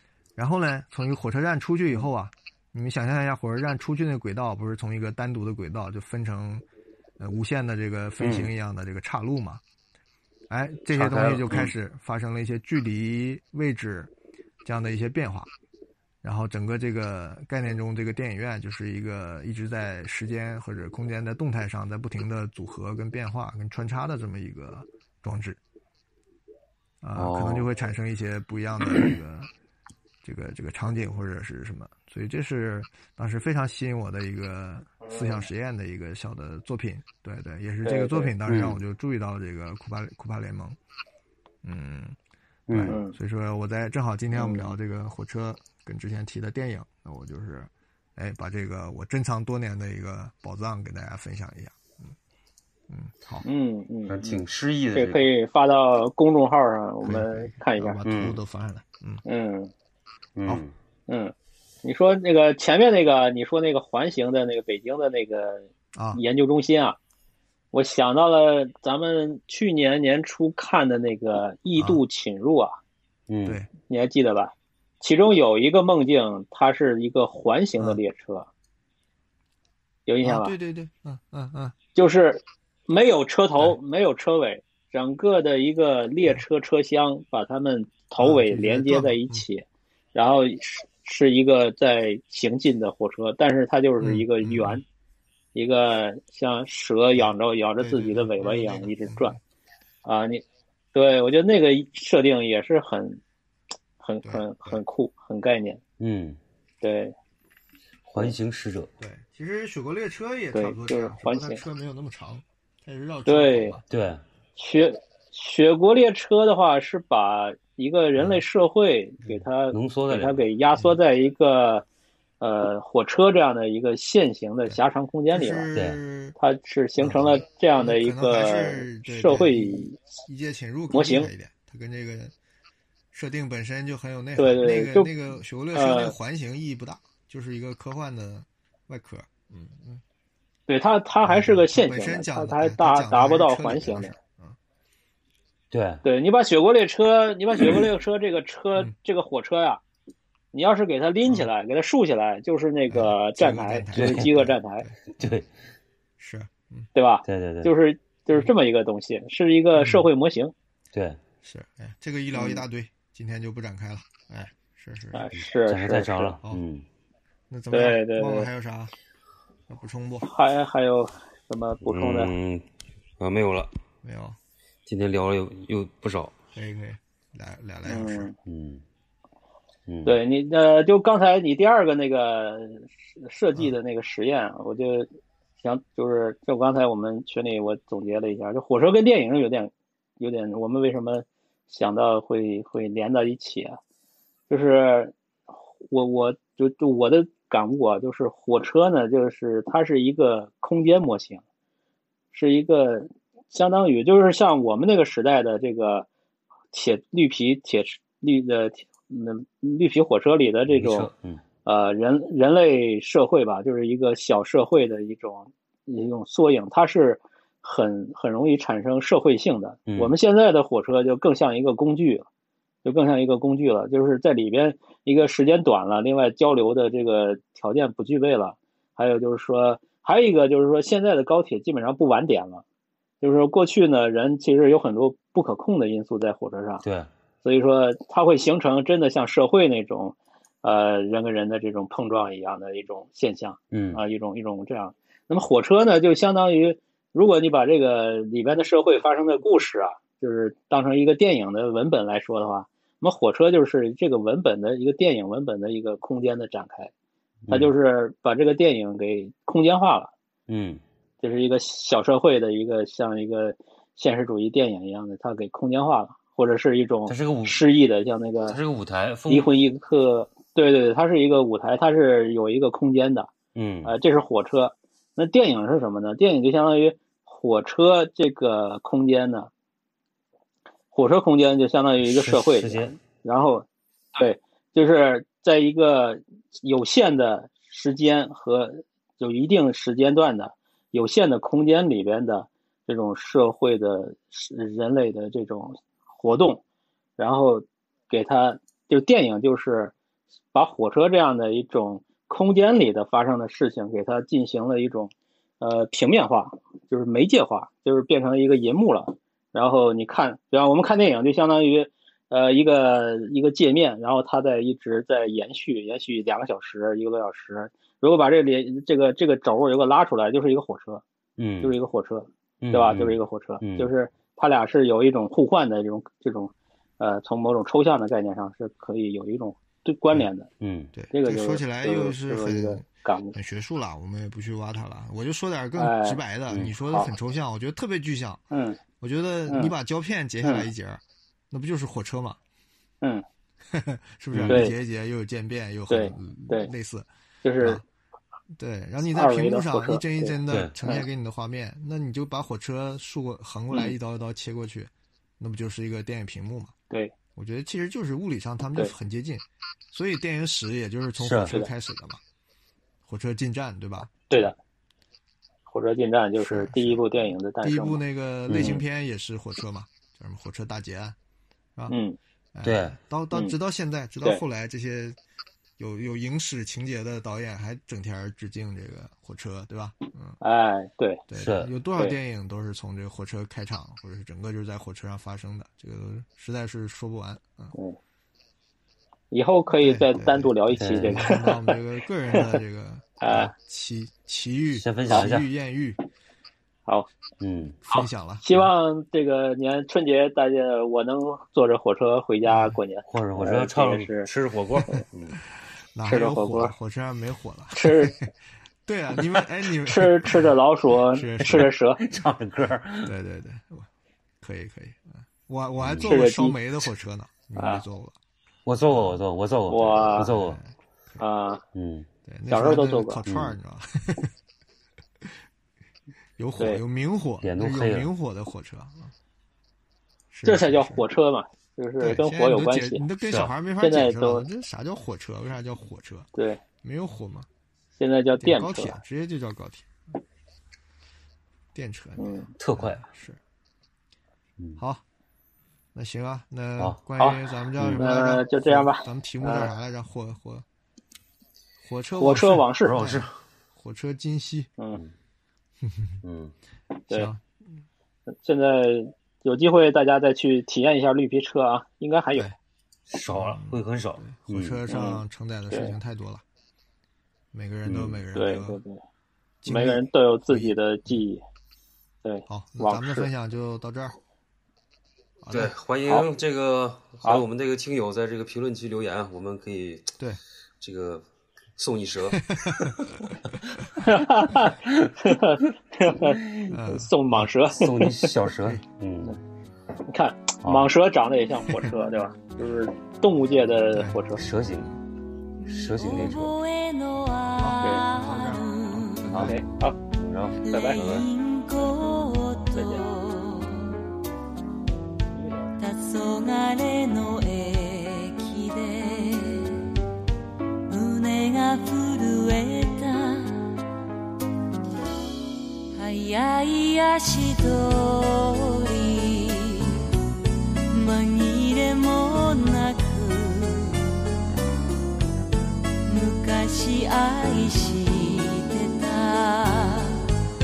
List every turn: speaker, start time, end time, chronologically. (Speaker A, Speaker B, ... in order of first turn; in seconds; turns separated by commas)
Speaker A: 0.4-6.7, Speaker A: 7.2-9.6, Speaker B: 8.2-8.5, Speaker A: 10.5-14.1, Speaker B: 10.9-11.7, Speaker A: 14.6-15.5, Speaker A: 16.2-25.6, Speaker A: 27.0-29.5, Speaker B: 27.2-27.7, Speaker A: 30.2-40.8, Speaker C: 35.0-35.4, Speaker C: 37.8-38.3, Speaker B: 38.5-38.8, Speaker A: 41.6-42.2, Speaker B: 42.7-43.0, Speaker A: 42.7-52.1, Speaker C: 42.9-43.2, Speaker A: 52.9-53.5, Speaker C: 53.4-54.3, Speaker B: 54.1-55.3, Speaker C: 55.0-58.0, Speaker A: 57.0-59.2, Speaker B: 58.0-58.4, Speaker C: 59.2-59.7, Speaker B: 60.4-60.7, Speaker C: 61.1-67.0, Speaker A: 66.0-66.2, Speaker C: 67.7-72.8, Speaker B: 73.3-73.6, Speaker C: 73.9-78.5, Speaker C: 80.1-80.5, Speaker A: 80.2-81.8, Speaker C: 82.0-94.8, Speaker A: 88.2-89.5, Speaker A: 94.0-94.8, Speaker C: 95.5-99.4, Speaker A: 97.2-99.4, Speaker C: 100.0-100.4, Speaker C: 100.9-103.2, Speaker C: 104.0-105.8, Speaker A: 104.2-104.8, Speaker B: 106.0-106.4, Speaker C: 106.8-107.1, Speaker B: 108.1-108.9, Speaker A: 109.0-113.9, Speaker C: 110.5-111.6, Speaker C: 113.3-113.8, Speaker B: 113.9-114.2, Speaker C: 114.6-121.8, Speaker B: 119.7-120.4, Speaker C: 122.4-125.7, Speaker A: 125.3-126.4, Speaker B: 125.7-126.0, Speaker C: 126.4-130.0, Speaker A: 127.0-132.3, Speaker C: 130.9-131.3, Speaker A: 133.1-140.0, Speaker C: 134.4-135.1, Speaker C: 135.7-136.1, Speaker C: 140.7-144.1, Speaker A: 141.2-144.6, Speaker B: 145.7-146.0, Speaker C: 146.1-149.8, Speaker C: 150.5-154.9, Speaker A: 152.9-155.3, Speaker B: 153.9-154.3, Speaker B: 155.1-155.5, Speaker A: 156.2-156.9, Speaker C: 156.9-160.5, Speaker B: 157.2-157.7, Speaker A: 159.8-160.1, Speaker B: 160.9-161.2, Speaker A: 161.4-165.2, Speaker C: 162.3-162.6, Speaker C: 165.1-166.4, Speaker B: 165.7-166.8, Speaker A: 167.5-168.9, Speaker C: 167.7-168.5, Speaker A: 169.7-170.3, Speaker C: 170.2-172.3, Speaker B: 171.8-172.7, Speaker B: 173.2-173.7, Speaker A: 174.0-174.4, Speaker B: 174.9-176.3, Speaker A: 176.5-178.3, Speaker C: 177.9-178.3, Speaker B: 178.4-178.8, Speaker B: 179.9-180.2, Speaker C: 180.1-185.1, Speaker C: 185.6-193.8, Speaker C: 194.5-195.1, Speaker C: 195.9-201.4, Speaker C: 202.3-206.1, Speaker C: 206.7-211.1, Speaker B: 210.7-211.4, Speaker C: 211.7-222.3, Speaker B: 219.9-220.1, Speaker C: 222.8-232.6, Speaker C: 233.2-236.8, Speaker B: 236.8-237.1, Speaker C: 237.4-256.9, Speaker B: 243.7-244.0, Speaker C: 257.5-260.1, Speaker B: 260.5-260.8, Speaker C: 261.2-268.6, Speaker B: 267.1-267.6, Speaker B: 268.5-269.5, Speaker C: 269.3-273.3, Speaker B: 273.6-273.9, Speaker C: 273.9-279.5, Speaker C: 280.9-296.6, Speaker B: 282.0-283.0, Speaker C: 297.2-299.9, Speaker C: 300.5-321.0, Speaker B: 321.4-321.7, Speaker C: 321.6-330.5, Speaker B: 322.6-323.9, Speaker B: 330.6-330.9, Speaker A: 330.9-338.4, Speaker C: 331.1-333.4, Speaker C: 335.8-336.2, Speaker B: 336.5-336.8, Speaker C: 338.5-338.8, Speaker A: 339.0-342.4, Speaker C: 339.5-339.7, Speaker A: 343.7-347.1, Speaker B: 344.3-344.6, Speaker C: 344.5-344.8, Speaker C: 345.9-346.7, Speaker C: 347.4-347.8, Speaker A: 348.6-356.7, Speaker C: 349.1-351.0, Speaker B: 350.5-350.7, Speaker A: 357.4-362.2, Speaker B: 361.2-361.6, Speaker A: 363.0-364.5, Speaker C: 364.3-364.6, Speaker C: 365.7-368.0, Speaker A: 366.4-371.2, Speaker B: 368.5-368.8, Speaker C: 368.6-368.8, Speaker C: 371.9-372.2, Speaker A: 372.6-375.2, Speaker B: 372.6-373.0, Speaker A: 375.8-380.4, Speaker C: 380.4-381.2, Speaker A: 381.3-387.7, Speaker B: 381.4-381.7, Speaker C: 389.3-391.8, Speaker A: 389.8-396.0, Speaker B: 390.7-391.3, Speaker C: 393.2-393.5, Speaker B: 394.7-395.5, Speaker B: 397.4-397.8, Speaker A: 397.9-398.7, Speaker C: 397.9-404.3, Speaker A: 402.5-402.7, Speaker B: 403.1-405.4, Speaker A: 405.9-408.3, Speaker C: 406.1-406.7, Speaker C: 407.7-408.1, Speaker A: 408.9-410.5, Speaker C: 409.8-412.0, Speaker A: 411.1-411.7, Speaker B: 412.0-413.1, Speaker A: 413.0-413.9, Speaker A: 414.4-418.2, Speaker B: 415.8-416.1, Speaker C: 416.1-416.6, Speaker C: 417.6-417.8, Speaker B: 418.7-420.6, Speaker A: 418.9-419.2, Speaker C: 419.7-420.3, Speaker A: 420.2-421.2, Speaker C: 421.2-421.6, Speaker B: 421.7-422.1, Speaker A: 422.2-424.3, Speaker C: 422.5-423.2, Speaker B: 423.3-423.6, Speaker A: 426.4-429.1, Speaker B: 427.4-428.1, Speaker A: 430.3-431.0, Speaker C: 430.4-433.1, Speaker A: 432.0-436.3, Speaker C: 433.8-434.5, Speaker C: 436.4-436.6, Speaker A: 436.8-437.5, Speaker C: 438.0-439.0, Speaker A: 438.4-439.9, Speaker A: 441.7-443.4, Speaker C: 442.2-442.5, Speaker B: 442.6-443.1, Speaker A: 444.8-445.0, Speaker A: 445.9-450.6, Speaker C: 447.2-449.7, Speaker B: 447.8-448.0, Speaker A: 451.8-454.7, Speaker C: 452.2-453.0, Speaker B: 452.8-453.3, Speaker A: 455.8-456.2, Speaker B: 456.2-456.5, Speaker A: 457.1-457.4, Speaker C: 458.4-462.5, Speaker B: 463.1-464.8, Speaker A: 463.4-466.4, Speaker C: 464.9-465.9, Speaker A: 467.5-468.8, Speaker B: 467.9-468.2, Speaker C: 468.3-469.0, Speaker A: 469.6-470.8, Speaker C: 469.7-471.4, Speaker C: 472.2-473.3, Speaker A: 472.5-474.2, Speaker A: 475.4-475.7, Speaker B: 475.5-480.1, Speaker B: 480.8-481.2, Speaker B: 481.8-483.1, Speaker A: 482.5-482.9, Speaker C: 484.0-488.3, Speaker B: 484.8-485.1, Speaker A: 486.7-487.4, Speaker B: 487.7-489.4, Speaker C: 490.1-494.4, Speaker A: 493.9-494.2, Speaker B: 494.4-494.9, Speaker A: 494.7-495.0, Speaker D: 495.6-499.4, Speaker B: 495.7-496.5, Speaker A: 497.6-499.6, Speaker B: 499.2-499.6, Speaker C: 499.4-500.0, Speaker B: 500.1-501.3, Speaker D: 500.6-504.0, Speaker C: 500.7-501.0, Speaker C: 502.8-503.1, Speaker D: 505.8-509.9, Speaker D: 510.9-513.7, Speaker D: 515.9-520.1, Speaker D: 520.9-524.1, Speaker D: 526.1-530.3